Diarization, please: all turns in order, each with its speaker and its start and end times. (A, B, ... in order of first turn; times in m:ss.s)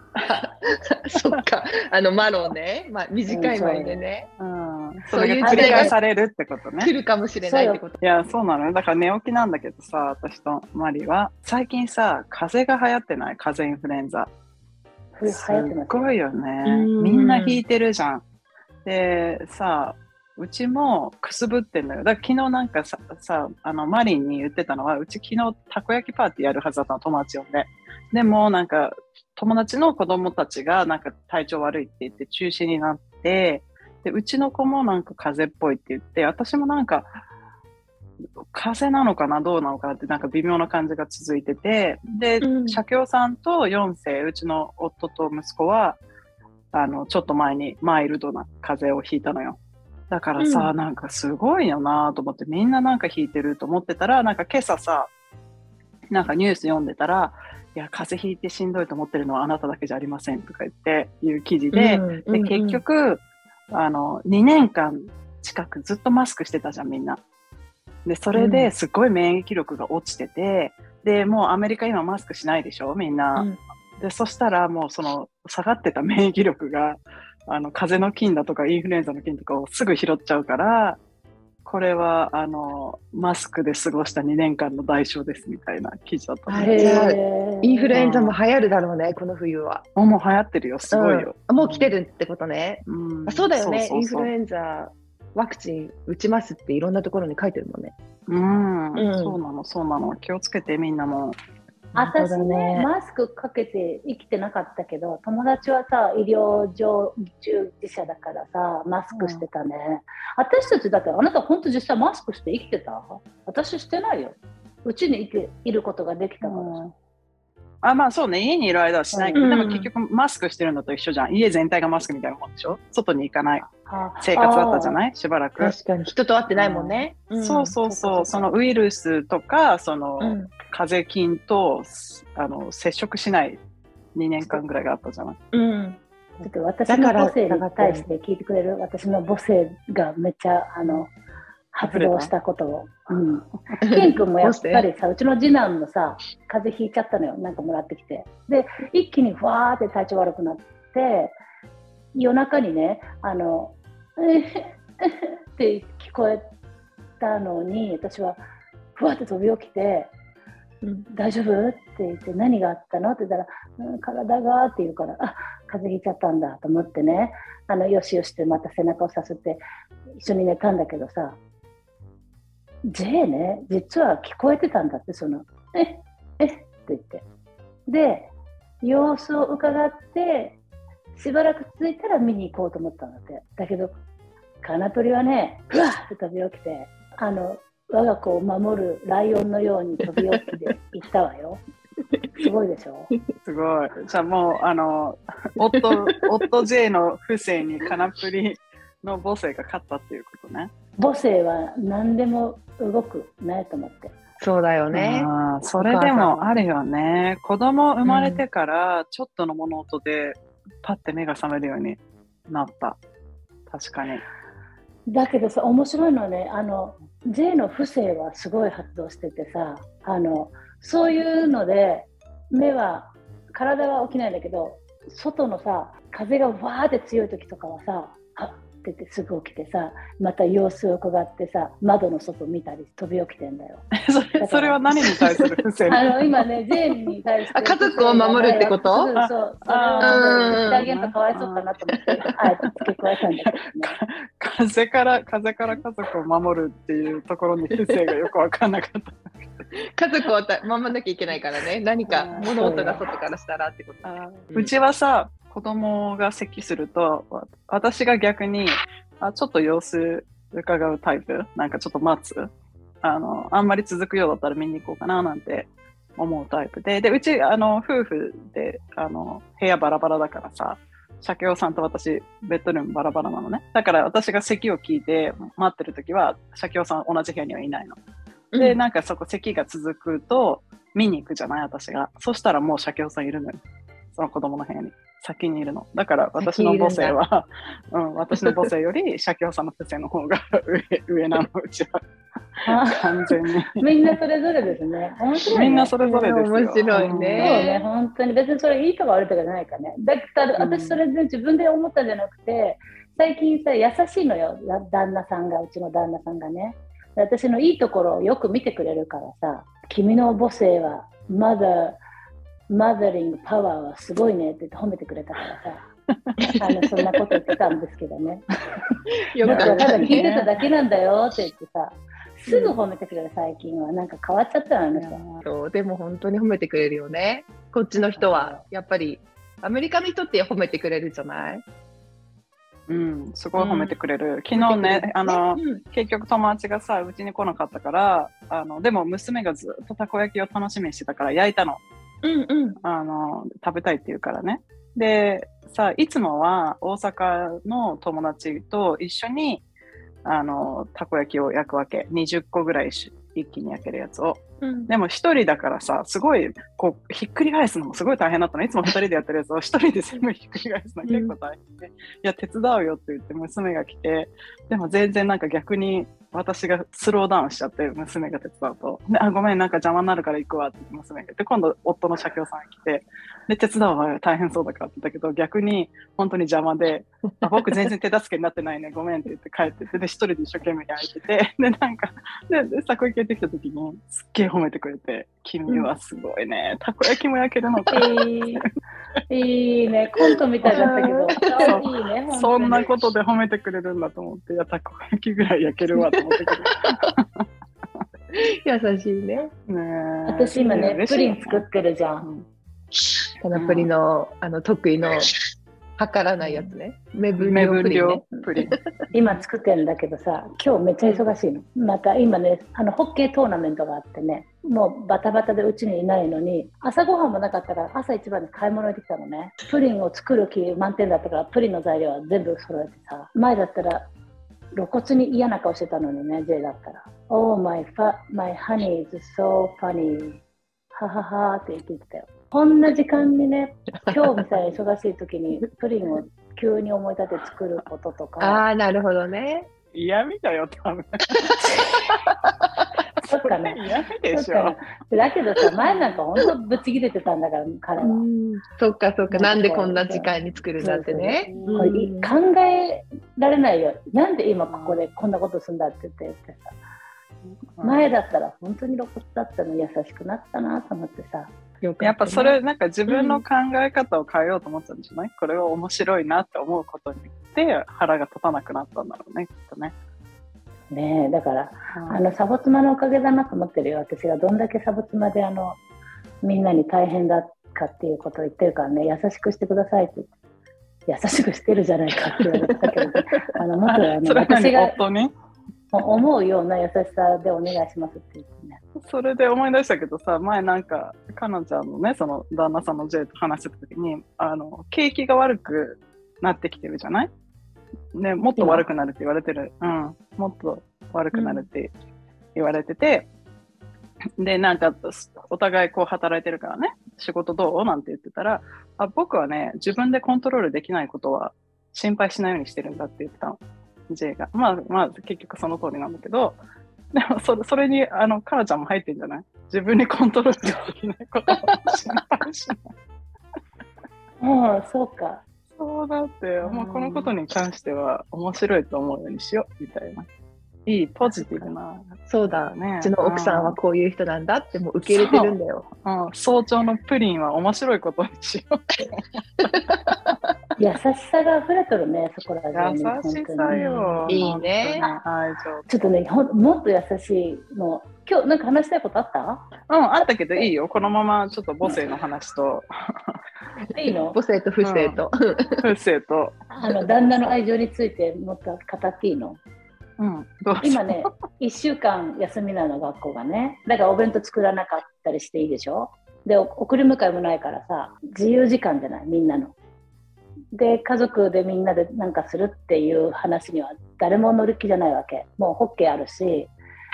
0:00.2-0:04.3 A
0:03.3-0:04.0 B
0:04.4-0:06.9 C
0:05.1-0:06.0 A
0:05.4-0:05.9 B
0:06.8-0:08.0 A
0:07.4-0:07.8 B
0:08.0-0:14.3 C
0:15.1-0:16.1 B
0:15.2-0:18.2 C
0:16.6-0:17.6 A
0:18.8-0:37.2 C
0:38.5-0:46.0 C
0:42.4-0:42.8 A
0:46.7-0:49.6 C
0:50.1-0:55.1 C
0:50.4-0:50.7 A
0:56.1-1:07.2 C
1:01.7-1:02.8 A
1:08.0-1:21.0 C
1:08.3-1:08.7 A
1:21.6-1:27.2 C
1:26.5-1:29.8 A
1:26.6-1:28.0 B
1:27.9-1:28.4 C
1:30.0-1:31.9 C
1:30.9-1:37.9 A
1:32.8-1:34.3 C
1:38.3-1:41.4 C
1:39.0-1:39.4 A
1:41.9-1:56.8 B
1:42.1-1:42.9 A
1:49.1-1:49.4 C
1:56.4-1:56.9 C
1:57.8-2:03.7 C
1:59.1-1:59.4 B
1:59.3-1:59.9 A
2:03.7-2:05.0 B
2:04.2-2:05.7 C
2:05.6-2:07.8 A
2:06.5-2:13.6 C
2:07.8-2:08.5 B
2:10.2-2:10.5 A
2:14.1-2:15.4 C
2:15.5-2:16.0 A
2:16.4-2:21.1 B
2:16.9-2:18.0 A
2:21.7-2:31.4 B
2:21.8-2:22.3 C
2:23.8-2:24.8 A
2:32.1-2:36.5 B
2:37.2-2:38.4 B
2:39.0-2:40.1 B
2:40.8-2:41.1 A
2:41.1-2:49.6 B
2:50.2-2:51.4 B
2:52.8-2:57.2 B
2:57.9-3:00.6 B
3:01.2-3:04.0 B
3:04.6-3:11.6 B
3:12.4-3:13.1 B
3:13.4-3:20.7 C
3:21.0-3:24.1 B
3:24.4-3:25.3 A
3:24.9-3:33.0 C
3:25.8-3:26.4 A
3:25.9-3:26.3 B
3:28.0-3:28.4 A
3:33.7-3:34.2 C
3:35.1-3:53.9 B
3:54.0-3:56.4 C
3:54.4-3:54.8 B
3:55.9-4:04.0 B
3:57.5-3:59.1 A
3:59.1-4:01.7 C
4:00.0-4:00.9 A
4:03.5-4:09.6 C
4:07.8-4:08.2 A
4:09.9-4:14.7 A
4:12.1-4:12.5 C
4:12.5-4:13.0 B
4:14.0-4:22.5 C
4:23.0-4:38.0 C
4:38.5-4:38.8 A
4:38.6-4:43.6 C
4:44.1-4:52.0 C
4:46.4-4:47.2 A
4:48.3-4:48.6 A
4:52.6-4:53.8 C
4:52.6-4:55.9 B
4:55.5-4:57.6 C
4:56.0-4:57.8 A
4:57.4-5:12.0 B
5:00.6-5:01.0 C
5:12.7-5:15.8 B
5:16.6-5:18.4 B
5:19.3-5:20.3 A
5:19.4-5:20.5 C
5:19.4-5:25.2 B
5:22.5-5:22.7 A
5:24.9-5:25.4 C
5:25.4-5:31.6 A
5:28.1-5:28.6 B
5:32.9-5:41.8 C
5:33.6-5:34.0 A
5:34.5-5:35.8 A
5:42.2-5:42.8 A
5:42.8-5:49.6 C
5:50.2-6:28.7 C
5:54.6-5:54.9 A
6:01.0-6:01.3 A
6:17.4-6:17.9 A
6:27.9-6:28.6 B
6:29.3-6:32.8 B
6:30.6-6:37.4 C
6:30.7-6:31.8 A
6:35.9-6:37.1 A
6:38.3-6:39.5 A
6:39.7-6:41.6 C
6:40.2-6:42.3 B
6:43.4-6:45.4 A
6:43.5-6:43.9 C
6:46.0-6:48.8 A
6:47.3-6:48.8 C
6:49.1-7:04.1 B
7:04.7-7:10.4 B
7:10.9-7:18.6 B
7:18.4-7:19.7 A
7:19.9-7:22.2 C
7:23.2-7:24.8 C
7:23.3-7:23.8 B
7:24.3-7:28.2 B
7:25.8-7:26.2 C
7:28.0-7:32.3 A
7:29.3-7:36.8 B
7:31.4-7:31.9 C
7:34.7-7:35.0 C
7:37.4-7:38.1 C
7:37.8-7:41.5 B
7:41.8-7:42.6 A
7:42.0-7:49.9 C
7:43.1-7:43.4 A
7:50.9-7:55.8 B
7:51.9-7:52.2 C
7:56.4-8:00.3 B
8:01.1-8:05.0 B
8:03.9-8:05.3 C
8:05.9-8:08.8 B
8:09.0-8:17.3 C
8:18.1-8:21.9 C
8:21.3-8:21.7 A
8:22.5-8:23.3 C
8:24.4-8:36.6 C
8:37.1-8:42.8 C
8:44.4-8:45.4 B
8:45.8-8:50.2 C
8:46.6-8:47.3 B
8:50.8-8:53.8 C
8:51.2-8:51.7 B
8:52.3-8:55.9 A
8:55.0-8:59.9 C
8:59.7-9:00.2 A
9:00.8-9:05.2 B
9:02.7-9:05.9 C
9:03.7-9:05.0 A
9:05.9-9:10.7 B
9:09.9-9:13.4 C
9:13.9-9:14.4 B
9:14.3-9:15.8 A
9:14.8-9:15.2 C
9:15.8-9:16.6 C
9:16.7-9:19.6 B
9:20.2-9:21.3 C
9:20.8-9:29.7 B
9:30.7-9:36.7 B